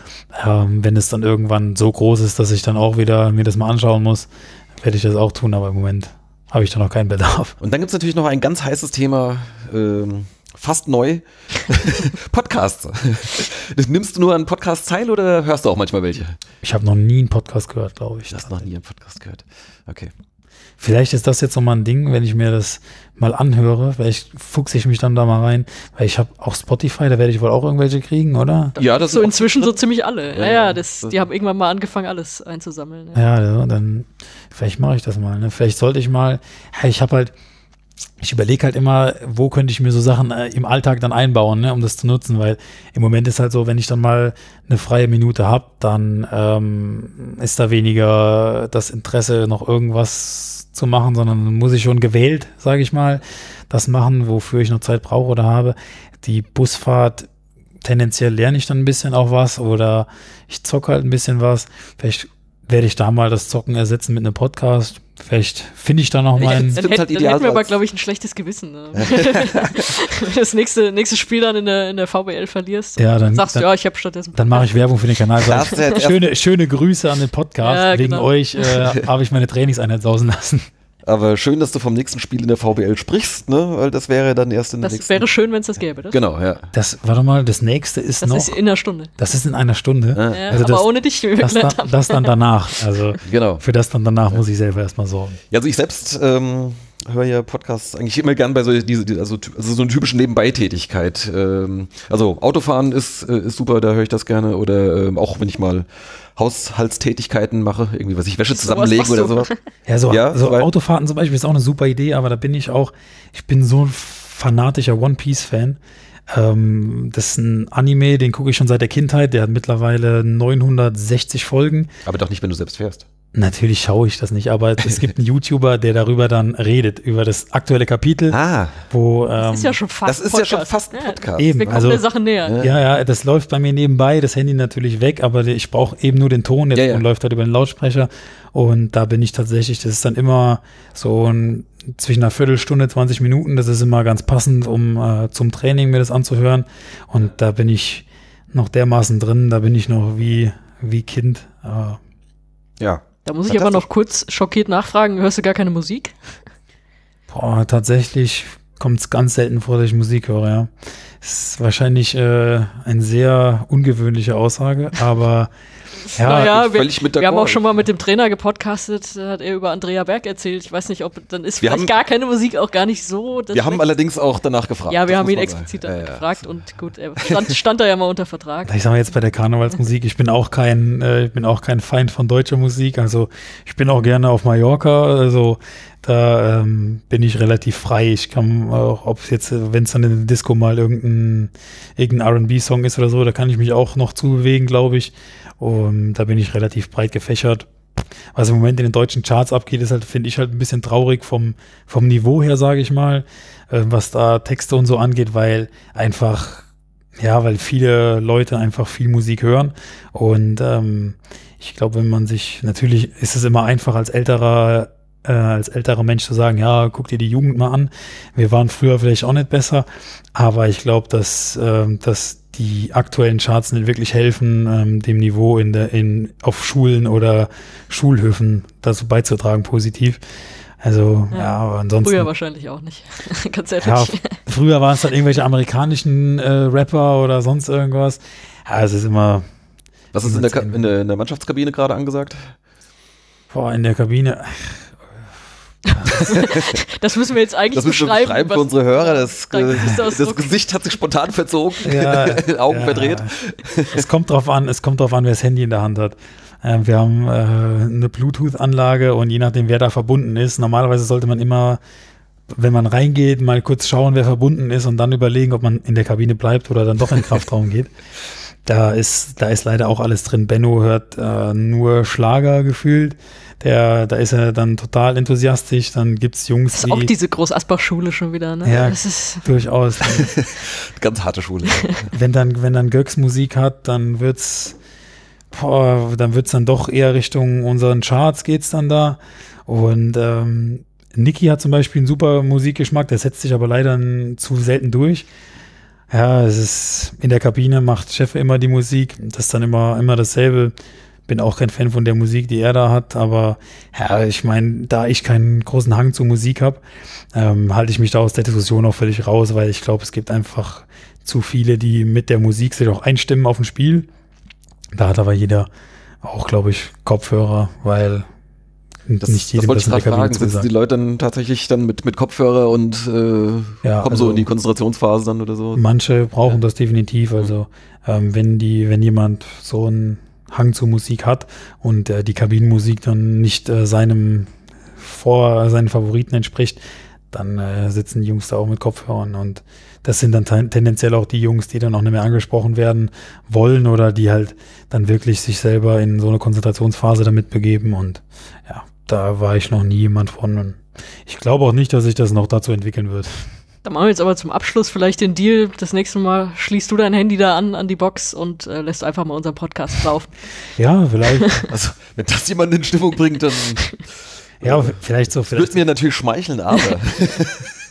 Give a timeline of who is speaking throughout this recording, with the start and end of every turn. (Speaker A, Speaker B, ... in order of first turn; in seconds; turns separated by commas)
Speaker A: 0.3-7.6, Speaker B: 7.6-16.4, Speaker A: 16.6-18.5, Speaker B: 18.3-20.1, Speaker A: 20.8-28.8, Speaker B: 28.8-29.8, Speaker C: 28.9-33.2, Speaker B: 30.3-31.2, Speaker A: 33.1-37.3, Speaker A: 38.2-57.3, Speaker A: 57.8-66.8, Speaker C: 66.4-74.7, Speaker B: 66.4-67.8, Speaker B: 69.0-69.9, Speaker A: 73.0-73.7, Speaker A: 74.3-80.7, Speaker B: 75.4-76.2, Speaker C: 77.6-78.8, Speaker B: 81.0-85.2, Speaker C: 84.8-86.2, Speaker B: 86.1-86.7, Speaker A: 86.7-88.6, Speaker C: 88.2-89.1, Speaker A: 89.2-95.4, Speaker B: 90.1-90.5, Speaker C: 90.3-92.3, Speaker B: 93.2-93.6, Speaker B: 95.5-109.5, Speaker C: 108.5-109.6, Speaker A: 109.9-121.9, Speaker B: 110.1-110.7, Speaker B: 122.0-123.0, Speaker A: 123.3-128.4, Speaker B: 128.3-128.8, Speaker A: 128.9-129.7, Speaker C: 129.4-132.6, Speaker B: 130.0-131.9, Speaker A: 131.4-132.0, Speaker B: 132.4-132.7, Speaker A: 132.6-152.0, Speaker B: 136.7-137.0, Speaker B: 152.8-153.8, Speaker C: 153.2-156.2, Speaker A: 157.3-165.5, Speaker A: 166.1-166.7, Speaker C: 166.1-173.8, Speaker B: 166.4-167.6, Speaker B: 171.6-171.9, Speaker B: 173.5-176.2, Speaker C: 174.9-178.7, Speaker A: 178.7-197.7, Speaker A: 198.3-230.2, Speaker A: 230.8-232.3, Speaker C: 232.0-234.4, Speaker A: 233.8-239.4, Speaker B: 240.1-242.5, Speaker A: 240.2-240.9, Speaker A: 243.5-244.9, Speaker C: 245.8-250.6, Speaker B: 246.1-246.8, Speaker B: 247.7-254.1, Speaker A: 251.8-253.3, Speaker A: 253.9-261.8, Speaker A: 262.5-267.9, Speaker A: 268.6-277.1, Speaker C: 276.7-279.4, Speaker A: 278.6-280.3, Speaker B: 280.1-282.1, Speaker A: 282.1-284.8, Speaker A: 285.5-295.3, Speaker A: 296.1-300.7, Speaker A: 301.3-306.8, Speaker A: 307.3-314.1, Speaker A: 314.9-315.7, Speaker A: 316.2-318.2, Speaker A: 319.1-320.7, Speaker B: 319.2-325.8, Speaker A: 323.8-324.5, Speaker A: 325.7-353.5, Speaker C: 353.8-360.3, Speaker A: 360.8-361.6, Speaker C: 361.4-361.6, Speaker B: 361.7-364.1, Speaker B: 364.6-367.6, Speaker A: 364.6-365.8